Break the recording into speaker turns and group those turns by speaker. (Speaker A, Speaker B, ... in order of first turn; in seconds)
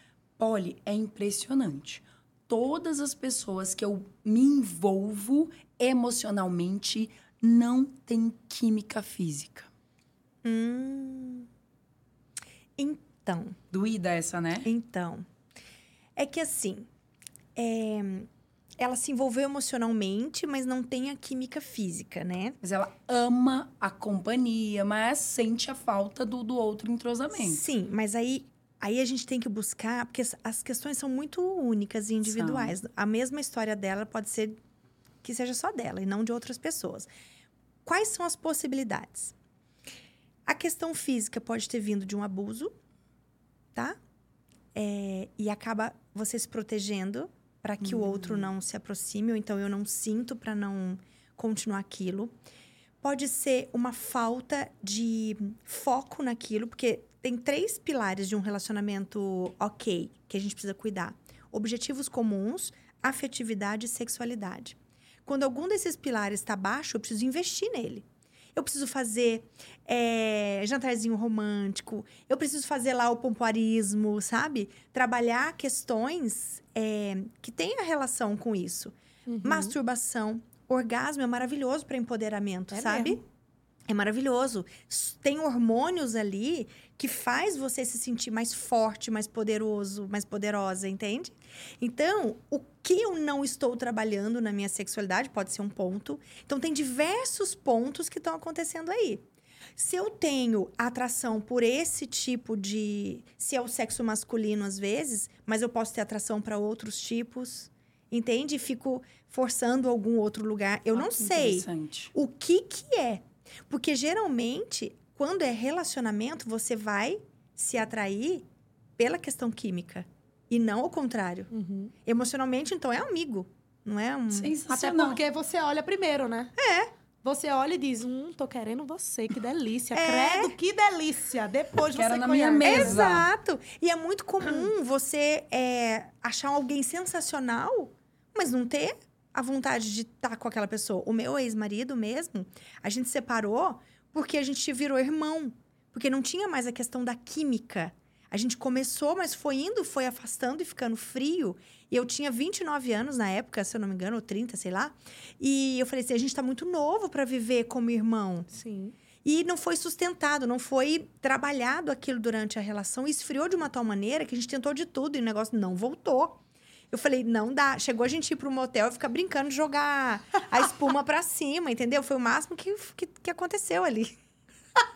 Speaker A: 0.4-9.7, 13.7-14.7, 22.6-27.6, 32.3-32.8, 47.9-48.4, 110.9-112.1, 124.3-125.2, 131.9-133.3
Speaker B: 10.4-11.5, 12.8-13.6, 14.7-15.3, 16.2-16.9, 17.6-22.6, 27.4-34.6, 35.2-37.1, 37.9-39.4, 40.5-42.7, 44.8-52.3, 53.0-83.2, 83.9-99.2, 99.8-118.5, 119.0-121.5, 122.0-124.5, 126.6-126.9, 129.9-130.6, 132.6-158.5, 159.2-174.2
Speaker C: 79.3-79.7, 82.7-83.2, 121.5-121.9, 124.7-126.5, 127.2-133.0, 158.5-158.9